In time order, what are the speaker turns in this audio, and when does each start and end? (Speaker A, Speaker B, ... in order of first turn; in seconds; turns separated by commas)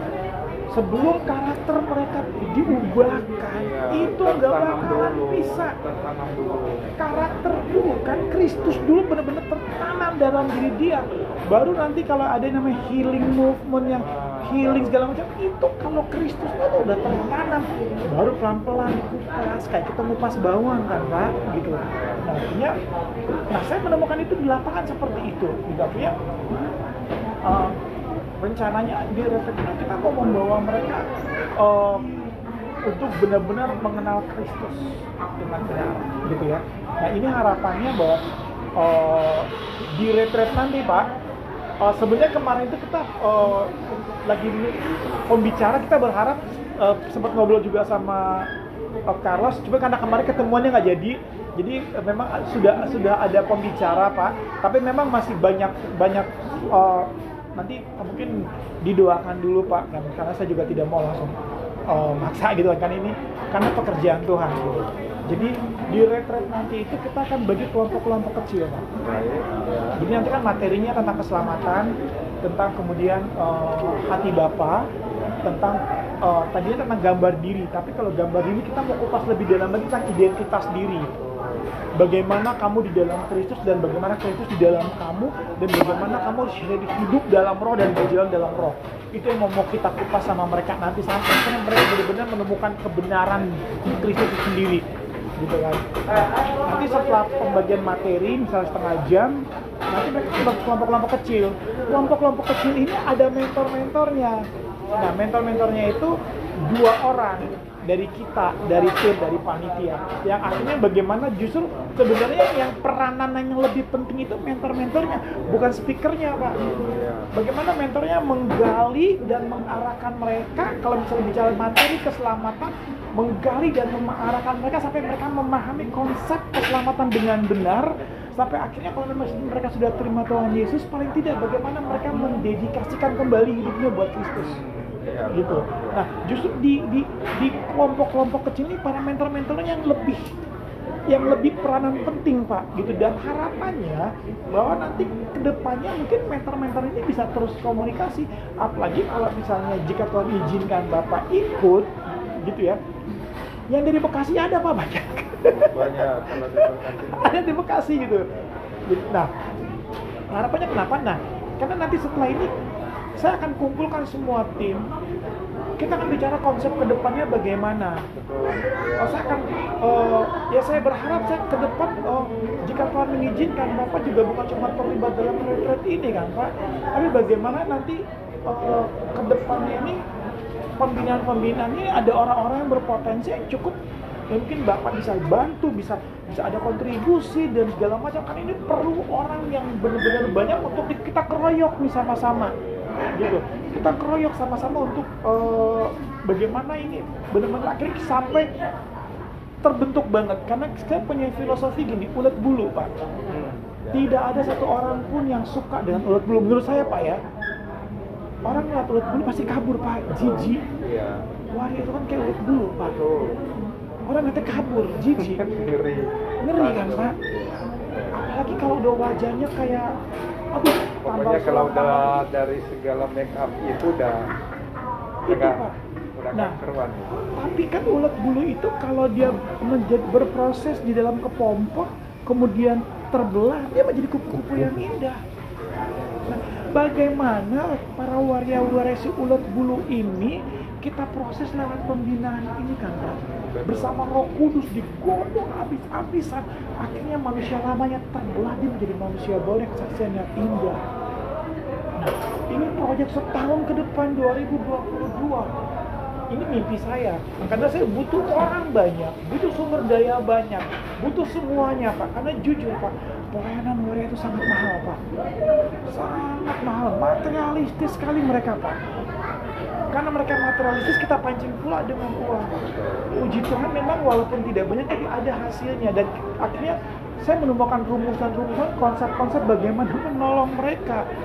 Speaker A: 0.7-5.8, Speaker B: 3.5-6.9, Speaker A: 7.0-22.7, Speaker B: 14.0-14.9, Speaker B: 21.9-22.2, Speaker A: 23.5-26.1, Speaker A: 27.4-27.7, Speaker A: 28.4-31.0, Speaker A: 31.6-32.1, Speaker A: 32.8-38.2, Speaker A: 38.8-41.1, Speaker A: 41.8-43.7, Speaker A: 44.2-48.5, Speaker A: 49.1-61.4, Speaker A: 61.9-68.9, Speaker B: 64.6-65.0, Speaker B: 69.0-70.0, Speaker A: 70.0-71.9, Speaker A: 72.4-74.9, Speaker A: 75.4-81.1, Speaker B: 81.1-81.7, Speaker A: 82.0-94.8, Speaker A: 95.4-116.6, Speaker B: 116.4-117.3, Speaker A: 117.3-134.6, Speaker B: 134.3-136.1, Speaker A: 135.3-140.2, Speaker A: 141.1-151.9, Speaker A: 152.4-152.8, Speaker A: 153.7-158.2, Speaker B: 155.5-157.6, Speaker A: 158.9-159.3, Speaker A: 160.3-162.5, Speaker A: 163.2-164.8, Speaker A: 165.8-168.1, Speaker B: 168.1-169.5, Speaker A: 169.0-180.0, Speaker A: 180.8-183.8, Speaker A: 184.3-192.5, Speaker A: 193.1-198.5, Speaker A: 199.6-202.9, Speaker B: 203.3-204.0, Speaker A: 203.9-207.2, Speaker A: 208.4-210.6, Speaker B: 210.1-211.2, Speaker A: 211.5-212.9, Speaker B: 212.9-213.4, Speaker A: 214.1-215.4, Speaker B: 215.2-218.1, Speaker A: 216.4-217.2, Speaker A: 218.1-219.9, Speaker A: 220.5-222.2, Speaker B: 221.0-224.3, Speaker A: 225.3-225.7, Speaker B: 225.3-225.6, Speaker B: 226.2-227.2, Speaker A: 227.3-235.2, Speaker A: 236.3-250.8, Speaker B: 243.4-244.0, Speaker A: 252.0-255.5, Speaker A: 256.3-265.0, Speaker A: 265.8-268.8, Speaker A: 269.9-272.5, Speaker B: 272.6-273.1, Speaker A: 273.1-281.1